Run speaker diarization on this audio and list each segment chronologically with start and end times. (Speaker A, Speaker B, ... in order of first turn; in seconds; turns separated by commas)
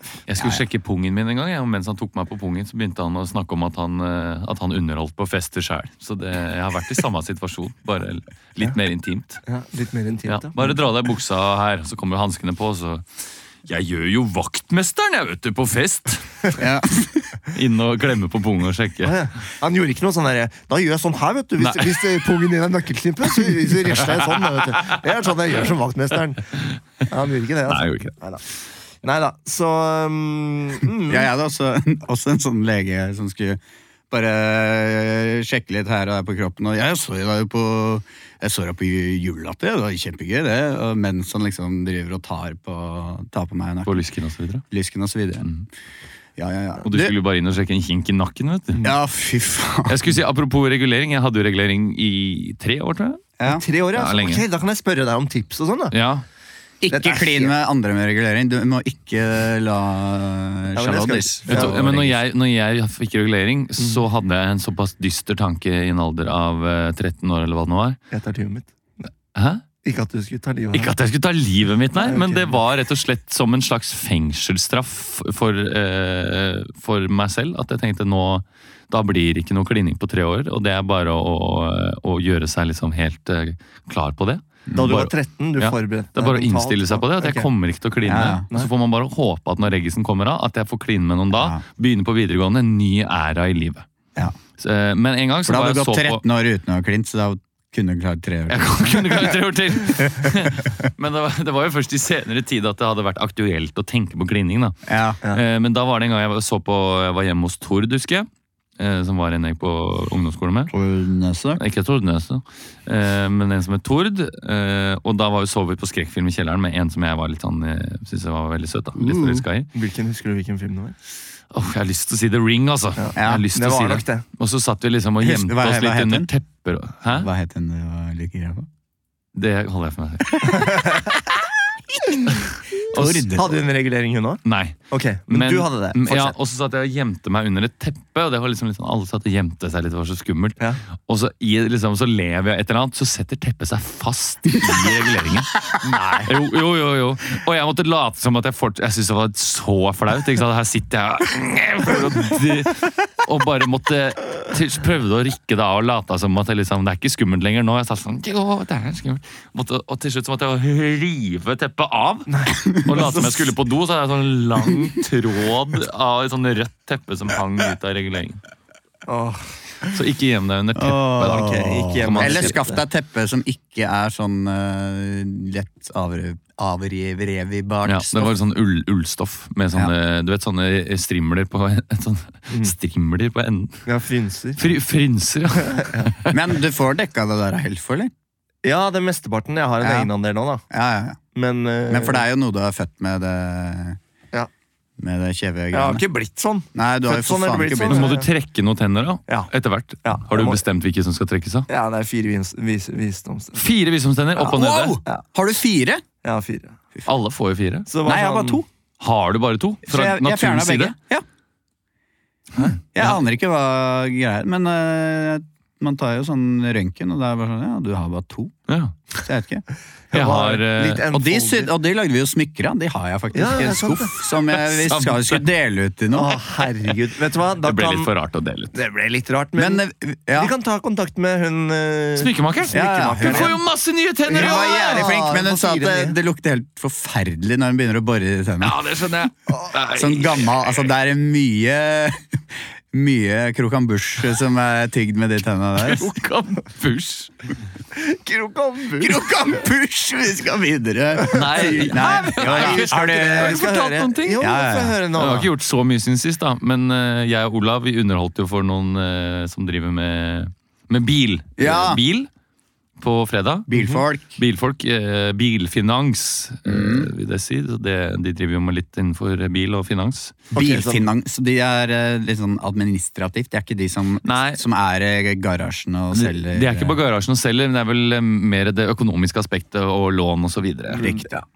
Speaker A: 0.3-9.4, Speaker B: 0.4-0.6, Speaker C: 9.4-10.5, Speaker A: 10.3-13.1, Speaker A: 13.7-16.4, Speaker B: 16.6-17.3, Speaker A: 17.5-19.2, Speaker C: 19.0-28.4, Speaker A: 21.6-22.0, Speaker A: 24.2-24.6, Speaker A: 27.7-28.1, Speaker C: 29.0-31.3, Speaker B: 31.1-44.0, Speaker A: 43.9-44.6, Speaker B: 44.7-45.5, Speaker A: 45.4-45.7, Speaker B: 46.4-47.1, Speaker A: 46.9-48.8, Speaker B: 48.8-50.2, Speaker A: 49.9-53.2, Speaker B: 53.4-53.6, Speaker C: 53.5-56.0, Speaker A: 54.0-54.4, Speaker A: 55.9-56.2, Speaker B: 56.8-62.2, Speaker C: 56.9-57.5, Speaker C: 60.8-61.8, Speaker A: 61.5-68.0, Speaker C: 68.1-69.1, Speaker A: 69.3-69.6, Speaker C: 69.8-70.9, Speaker A: 70.7-93.9, Speaker C: 72.0-72.6, Speaker B: 84.7-85.0, Speaker C: 84.7-87.5, Speaker B: 88.0-88.5, Speaker B: 91.3-91.6, Speaker A: 94.6-96.2, Speaker B: 95.5-99.4, Speaker A: 98.5-110.7, Speaker B: 104.9-105.2, Speaker B: 110.7-111.6, Speaker A: 111.6-119.7, Speaker B: 119.0-119.5, Speaker C: 119.7-121.0, Speaker A: 121.5-127.3, Speaker C: 123.0-124.2, Speaker B: 123.2-123.4, Speaker B: 125.2-126.3, Speaker B: 127.1-128.7, Speaker A: 129.3-130.7, Speaker C: 130.5-131.1, Speaker B: 132.9-133.6, Speaker A: 132.9-133.3, Speaker C: 133.3-136.3, Speaker A: 134.4-168.4, Speaker C: 145.8-146.3, Speaker C: 162.3-162.5, Speaker B: 162.8-163.4, Speaker C: 169.1-169.5, Speaker A: 169.9-172.6, Speaker B: 170.8-178.3, Speaker C: 171.3-172.8, Speaker A: 177.8-183.9, Speaker C: 183.9-184.6, Speaker A: 184.6-186.3, Speaker C: 185.7-186.1, Speaker B: 186.3-188.1, Speaker C: 188.6-190.6, Speaker B: 189.8-190.1, Speaker B: 190.7-191.2, Speaker C: 191.3-192.2, Speaker B: 191.9-194.0, Speaker B: 195.0-196.0, Speaker C: 195.7-198.3, Speaker B: 196.7-198.2, Speaker A: 197.9-201.7, Speaker C: 200.0-200.6, Speaker C: 201.7-203.6, Speaker A: 203.5-205.0, Speaker B: 204.4-206.0, Speaker C: 206.2-206.8, Speaker A: 207.1-207.9, Speaker C: 207.9-208.6, Speaker B: 208.0-208.7, Speaker A: 209.0-210.9, Speaker B: 209.8-211.2, Speaker A: 212.6-213.2, Speaker B: 212.9-218.6, Speaker A: 218.7-219.0, Speaker B: 219.2-219.6, Speaker C: 220.1-221.7, Speaker A: 220.1-221.0, Speaker B: 221.1-226.4, Speaker C: 223.3-224.1, Speaker A: 224.5-225.4, Speaker C: 226.1-228.1, Speaker A: 227.6-228.8, Speaker C: 228.7-233.6, Speaker B: 229.6-230.5, Speaker A: 232.2-235.1, Speaker B: 232.7-233.5, Speaker C: 234.3-236.2, Speaker B: 234.3-238.8, Speaker A: 238.6-240.7, Speaker B: 239.9-242.2, Speaker B: 242.9-246.1, Speaker A: 245.8-247.3, Speaker C: 247.9-249.3, Speaker B: 249.0-253.6, Speaker A: 251.3-254.4, Speaker C: 252.4-255.5, Speaker B: 254.4-255.0, Speaker A: 255.2-262.3, Speaker B: 261.6-262.0, Speaker A: 263.0-263.7, Speaker B: 263.7-264.4, Speaker C: 263.7-264.0, Speaker A: 264.4-270.4, Speaker B: 266.6-267.1, Speaker C: 270.5-271.1, Speaker B: 270.5-277.0, Speaker A: 274.2-274.6, Speaker A: 276.1-281.0, Speaker C: 280.9-281.2, Speaker B: 281.0-281.4